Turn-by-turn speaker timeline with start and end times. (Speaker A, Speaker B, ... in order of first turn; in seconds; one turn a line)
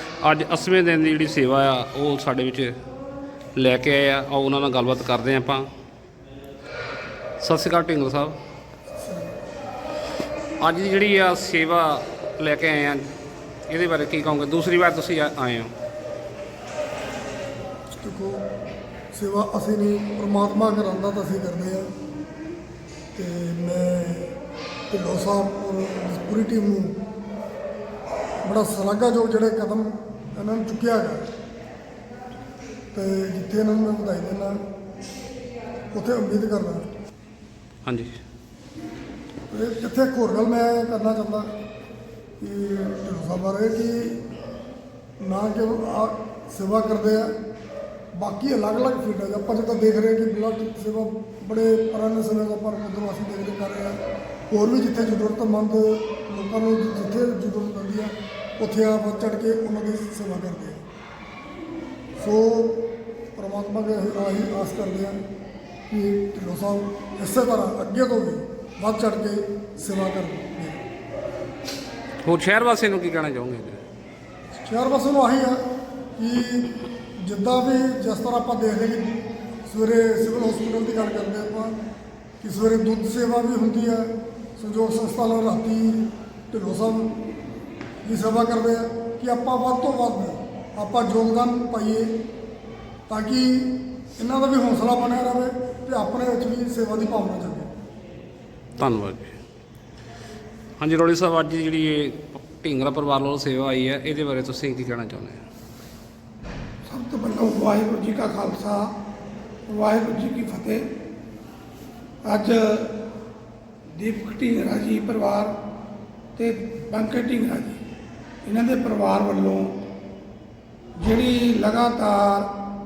Speaker A: 0.2-2.7
Speaker A: 3.6-5.7
Speaker A: 7.4-8.3
Speaker B: 9.0-9.3
Speaker A: 10.6-13.1
Speaker A: 13.7-15.7
Speaker B: 18.0-18.4
Speaker B: 19.1-21.9
Speaker B: 23.1-24.3
Speaker B: 24.9-27.0
Speaker B: 28.4-31.3
Speaker B: 32.9-34.6
Speaker B: 35.9-36.9
Speaker A: 37.9-38.1
Speaker B: 39.5-41.5
Speaker B: 42.4-44.2
Speaker B: 45.2-47.3
Speaker B: 48.1-54.0
Speaker B: 54.5-60.8
Speaker B: 62.2-65.2
Speaker B: 65.9-70.8
Speaker A: 72.2-73.8
Speaker B: 74.6-75.6
Speaker B: 76.2-81.8
Speaker B: 82.4-87.2
Speaker B: 88.0-92.2
Speaker B: 93.1-97.7
Speaker A: 98.8-99.4
Speaker A: 100.8-105.4
Speaker C: 106.9-108.9
Speaker C: 109.7-110.8
Speaker C: 112.2-113.0
Speaker C: 114.0-115.5
Speaker C: 116.4-117.8
Speaker C: 118.4-119.8
Speaker C: 121.0-122.5